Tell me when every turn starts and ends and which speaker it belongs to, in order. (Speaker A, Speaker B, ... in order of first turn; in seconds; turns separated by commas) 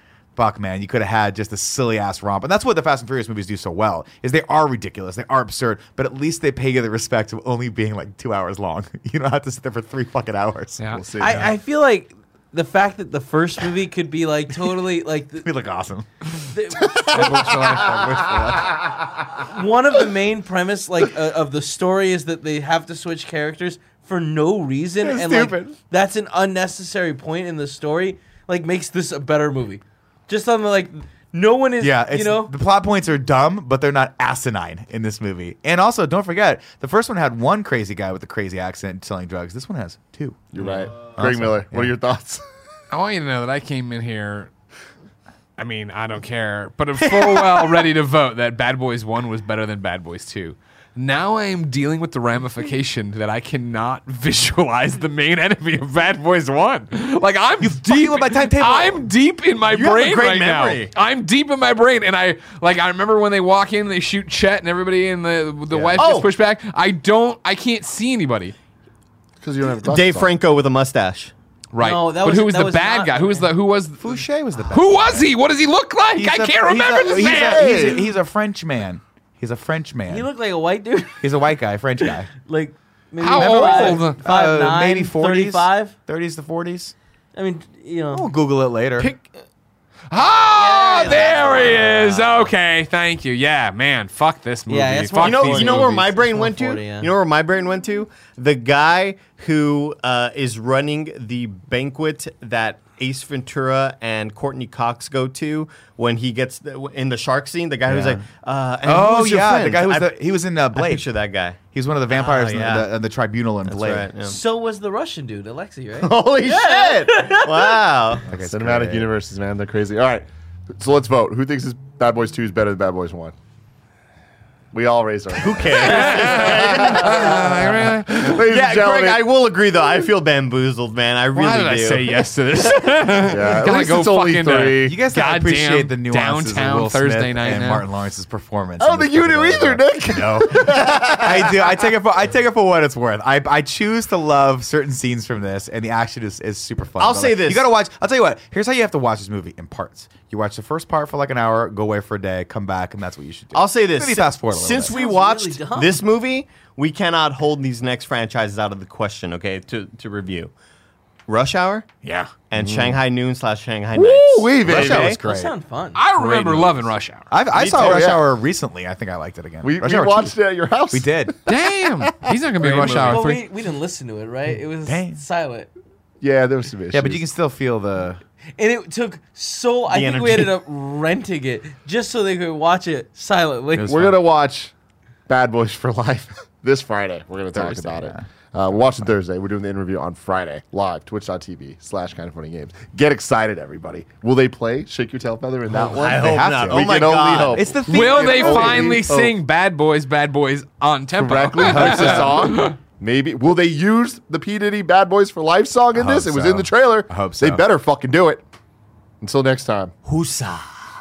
Speaker A: 0.3-11.5, Speaker B: 10.8-11.0, Speaker C: 10.9-11.5, Speaker D: 11.2-15.5, Speaker A: 15.4-16.1, Speaker D: 16.5-17.2, Speaker C: 17.0-17.9, Speaker B: 17.1-18.8, Speaker D: 19.4-32.5, Speaker A: 25.0-25.7, Speaker A: 31.8-40.6, Speaker C: 40.5-42.4, Speaker A: 41.1-41.9, Speaker B: 42.9-44.5, Speaker B: 45.6-68.5, Speaker A: 47.0-47.8, Speaker A: 57.6-59.0, Speaker E: 59.7-60.9, Speaker E: 65.9-66.3, Speaker C: 69.4-70.3, Speaker E: 69.8-71.3, Speaker B: 71.7-77.9, Speaker D: 71.8-73.5, Speaker A: 74.0-75.3, Speaker A: 76.1-80.3, Speaker C: 77.1-78.0, Speaker D: 80.1-81.3, Speaker A: 81.2-82.3, Speaker D: 82.4-85.9, Speaker B: 83.2-84.2, Speaker A: 83.4-86.9, Speaker D: 87.3-88.3, Speaker A: 88.1-89.1, Speaker E: 89.0-89.3, Speaker B: 90.1-96.0, Speaker D: 90.5-92.0, Speaker E: 91.2-92.5, Speaker D: 94.7-97.1, Speaker E: 95.2-110.1, Speaker A: 107.9-108.2, Speaker A: 108.8-111.0, Speaker E: 110.7-112.9, Speaker A: 111.6-114.1, Speaker E: 113.7-114.4, Speaker D: 114.2-117.8, Speaker E: 116.0-118.3, Speaker A: 118.3-119.1, Speaker C: 118.3-123.3, Speaker C: 124.7-129.3, Speaker E: 125.3-127.6, Speaker B: 125.8-128.3, Speaker E: 128.3-132.2, Speaker B: 131.3-137.8, Speaker C: 133.2-135.0, Speaker A: 134.8-154.9, Speaker C: 138.8-141.7, Speaker E: 147.0-147.6, Speaker E: 153.5-160.5, Speaker D: 154.8-156.0, Speaker E: 161.3-161.9, Speaker A: 162.0-162.3, Speaker E: 162.5-165.2, Speaker C: 162.6-163.0, Speaker C: 163.9-165.2, Speaker A: 164.6-165.5, Speaker D: 165.1-166.0, Speaker B: 165.9-167.3, Speaker A: 166.2-170.3, Speaker E: 167.5-168.1, Speaker C: 167.7-168.2, Speaker C: 169.6-172.3, Speaker A: 170.9-171.3, Speaker B: 171.4-173.4, Speaker A: 172.6-173.3, Speaker D: 172.8-175.7, Speaker A: 174.8-175.2, Speaker C: 176.2-177.2, Speaker A: 176.9-178.2, Speaker D: 178.6-184.0, Speaker E: 179.9-180.6, Speaker A: 183.8-184.1, Speaker C: 183.8-184.7, Speaker C: 185.3-199.3, Speaker A: 187.5-188.2, Speaker E: 195.8-197.6, Speaker A: 196.1-199.0, Speaker B: 197.9-202.8, Speaker C: 201.1-208.4, Speaker A: 201.6-202.5, Speaker A: 205.9-207.6, Speaker C: 209.2-209.9, Speaker E: 210.0-210.8